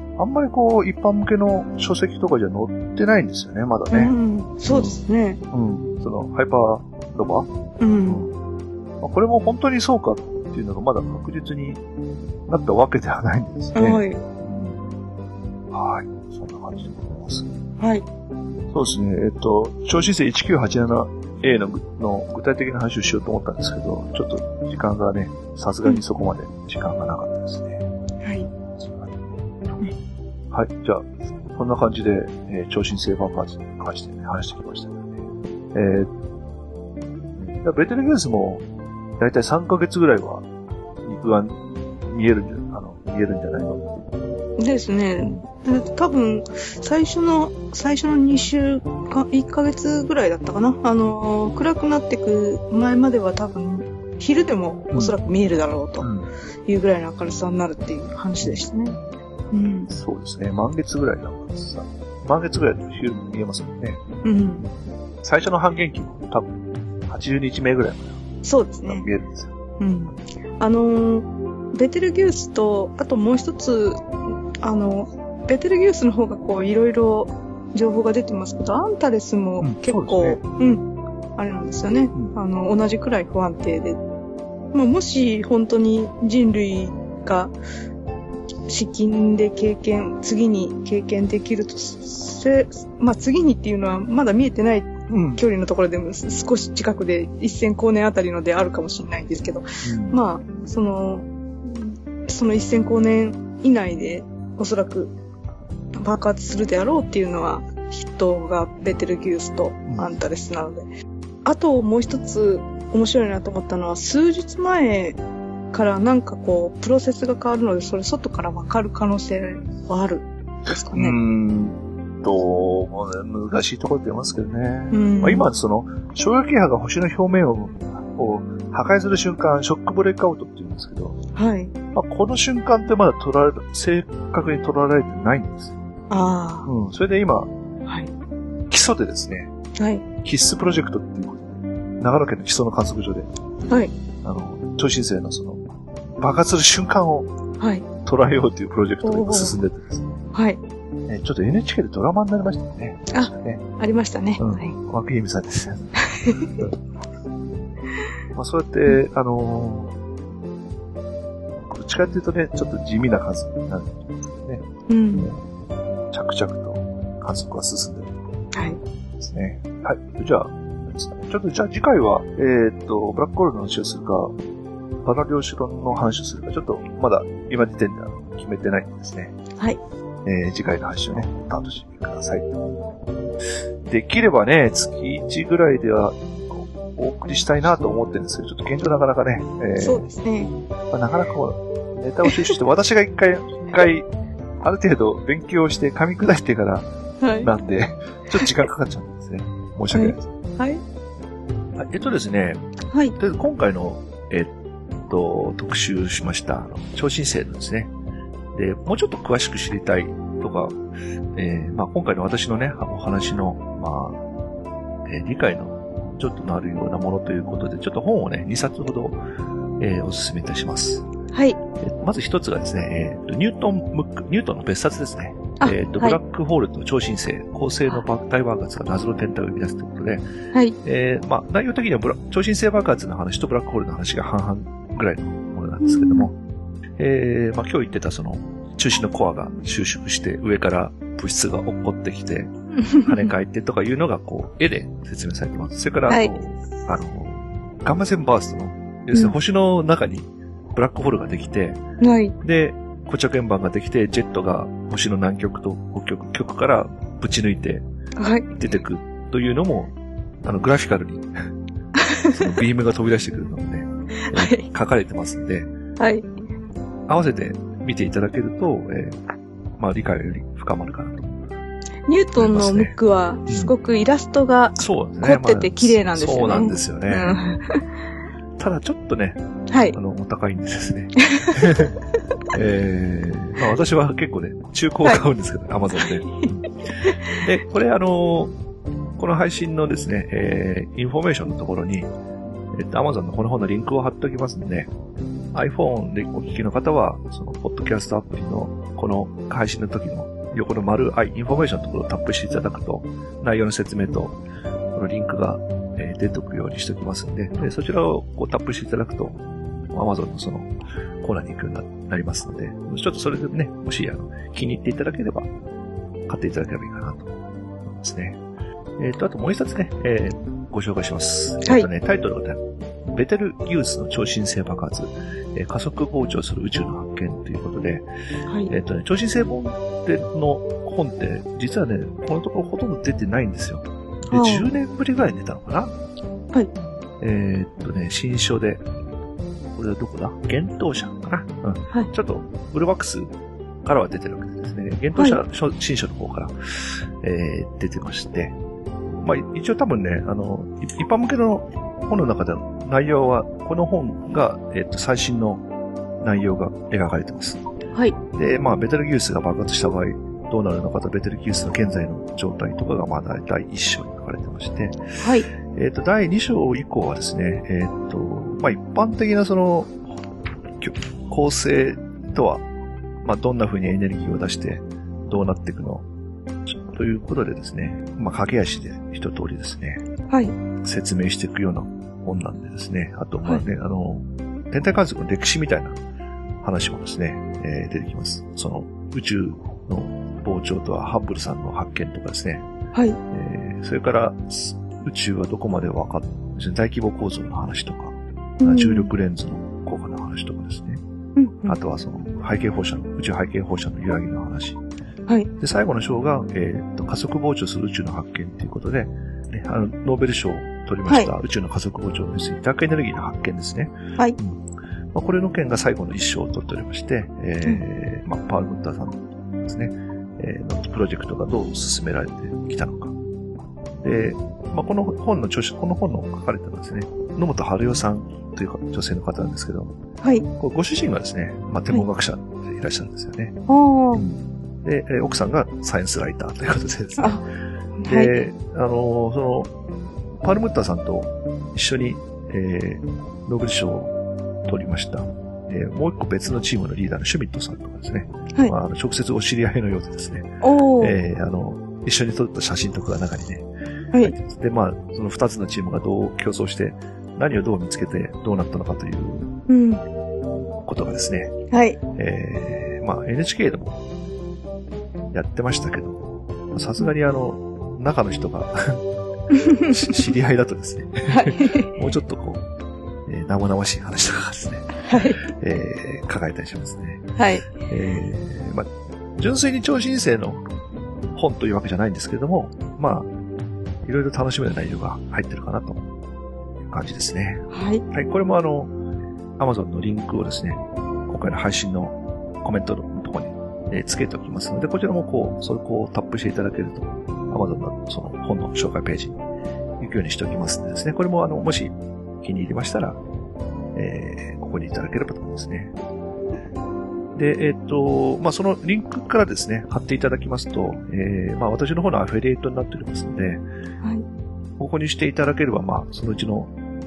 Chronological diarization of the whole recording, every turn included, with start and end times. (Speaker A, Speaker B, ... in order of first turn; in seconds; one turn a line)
Speaker A: 0.2-4.1
Speaker B: 3.9-5.4
Speaker A: 4.7-5.0
Speaker A: 5.5-7.5
Speaker B: 7.8-8.2
Speaker A: 8.0-8.3
Speaker A: 9.0-11.8
Speaker A: 12.5-14.8
Speaker B: 13.8-14.2
Speaker A: 15.7-17.5
Speaker B: 17.8-18.1
Speaker A: 18.7-27.9
Speaker B: 28.2-28.5
Speaker A: 28.8-29.2
Speaker A: 30.5-35.1
Speaker A: 35.7-36.1
Speaker A: 37.4-38.6
Speaker A: 39.2-40.5
Speaker A: 41.0-44.1
Speaker B: 44.6-56.1
Speaker A: 45.2-45.5
Speaker A: 56.0-56.3
Speaker B: 56.7-59.0
Speaker B: 59.5-59.9
Speaker A: 59.9-64.0
Speaker B: 64.2-64.6
Speaker A: 64.6-68.2
Speaker B: 68.4-69.1
Speaker A: 68.9-69.5
Speaker B: 69.8-74.0
Speaker B: 74.6-80.8
Speaker A: 79.6-80.4
Speaker B: 81.4-84.0
Speaker B: 84.7-87.5
Speaker B: 88.7-105.1
Speaker A: 95.1-95.4
Speaker A: 99.8-100.2
Speaker B: 106.0-110.8
Speaker B: 111.5-115.2
Speaker B: 115.7-121.2
Speaker A: 120.9-131.2
Speaker B: 124.9-125.5
Speaker B: 131.3-131.7
Speaker A: 131.9-135.8
Speaker B: 136.1-136.7
Speaker A: 136.7-137.5
Speaker B: 137.9-138.1
Speaker A: 138.7-139.5
Speaker B: 139.8-140.1
Speaker A: 140.2-143.3
Speaker A: 144.2-145.6
Speaker A: 146.2-147.3
Speaker B: 147.6-147.9
Speaker A: 148.0-150.2
Speaker B: 149.0-149.6
Speaker B: 150.3-150.6
Speaker A: 151.1-153.7
Speaker B: 153.1-154.7
Speaker A: 154.4-155.9
Speaker B: 156.0-156.5
Speaker A: 158.3-159.9
Speaker A: 161.7-164.6
Speaker B: 164.9-165.3
Speaker A: 165.2-165.5
Speaker A: 166.1-168.2
Speaker B: 168.5-168.8
Speaker A: 169.2-174.3
Speaker A: 175.0-179.4
Speaker A: 180.2-182.8
Speaker A: 183.9-190.1
Speaker B: 189.8-190.5
Speaker A: 190.9-194.1
Speaker B: 192.3-192.5
Speaker A: 194.6-196.9
Speaker B: 197.2-197.5
Speaker A: 197.4-200.3
Speaker B: 199.9-200.8
Speaker A: 201.8-202.6
Speaker A: 203.2-204.5
Speaker A: 205.1-207.9
Speaker A: 208.6-210.8
Speaker A: 211.3-214.2
Speaker A: 215.1-219.2
Speaker A: 219.8-221.1
Speaker B: 221.3-221.6
Speaker A: 221.8-230.3
Speaker B: 225.6-226.2
Speaker A: 230.8-236.3
Speaker B: 235.8-236.3
Speaker A: 237.0-251.8
Speaker B: 242.9-243.3
Speaker B: 246.1-246.3
Speaker B: 252.0-252.4
Speaker A: 252.4-257.8
Speaker B: 258.2-258.7
Speaker A: 258.6-259.9
Speaker A: 260.4-261.3
Speaker B: 262.0-262.5
Speaker A: 262.3-265.7
Speaker B: 264.3-264.6
Speaker B: 266.0-266.3
Speaker A: 267.1-269.2
Speaker A: 269.8-271.3
Speaker B: 272.1-277.8
Speaker A: 272.4-273.0
Speaker A: 273.5-273.7
Speaker A: 274.8-277.4
Speaker A: 278.6-281.9
Speaker B: 279.7-280.0
Speaker B: 281.2-281.7
Speaker A: 282.5-288.5
Speaker B: 286.0-286.4
Speaker B: 287.0-287.3
Speaker A: 289.2-292.1
Speaker A: 292.7-294.9
Speaker A: 295.5-304.4
Speaker A: 304.9-309.4
Speaker A: 309.9-310.7
Speaker A: 311.2-315.5
Speaker A: 316.3-317.3
Speaker A: 317.9-318.4
Speaker A: 319.0-328.1
Speaker B: 328.5-328.7
Speaker A: 328.7-335.9
Speaker B: 334.3-334.7
Speaker A: 337.2-338.8
Speaker A: 339.8-343.3
Speaker A: 343.9-348.6
Speaker A: 349.1-355.6
Speaker A: 356.2-357.6
Speaker A: 358.3-365.2
Speaker B: 365.2-365.5
Speaker A: 365.7-370.0
Speaker A: 370.8-372.6
Speaker A: 373.2-376.1
Speaker A: 376.9-380.1
Speaker B: 380.3-380.6
Speaker A: 380.8-386.0
Speaker A: 386.6-392.7
Speaker B: 392.9-393.2
Speaker A: 393.3-401.0
Speaker B: 398.6-399.1
Speaker B: 401.4-401.8
Speaker A: 401.7-404.8
Speaker A: 405.6-414.6
Speaker A: 415.1-423.1
Speaker A: 424.0-430.0
Speaker A: 430.6-433.6
Speaker B: 433.7-434.2
Speaker A: 434.1-437.4
Speaker B: 437.2-437.4
Speaker B: 438.0-438.4
Speaker A: 438.1-439.7
Speaker A: 440.4-444.1
Speaker A: 444.7-453.7
Speaker B: 450.6-451.2
Speaker A: 454.2-459.6
Speaker B: 459.7-460.0
Speaker A: 460.9-461.5
Speaker B: 461.7-462.0
Speaker A: 462.2-464.0
Speaker A: 465.3-472.6
Speaker B: 471.3-472.0
Speaker A: 473.3-480.6
Speaker B: 475.1-475.4
Speaker B: 477.4-477.7
Speaker A: 481.4-483.3
Speaker A: 484.0-486.1
Speaker A: 486.9-488.9
Speaker B: 487.7-488.0
Speaker A: 489.6-499.4
Speaker A: 500.0-503.2
Speaker A: 503.9-505.9
Speaker A: 507.4-513.6
Speaker A: 514.8-516.7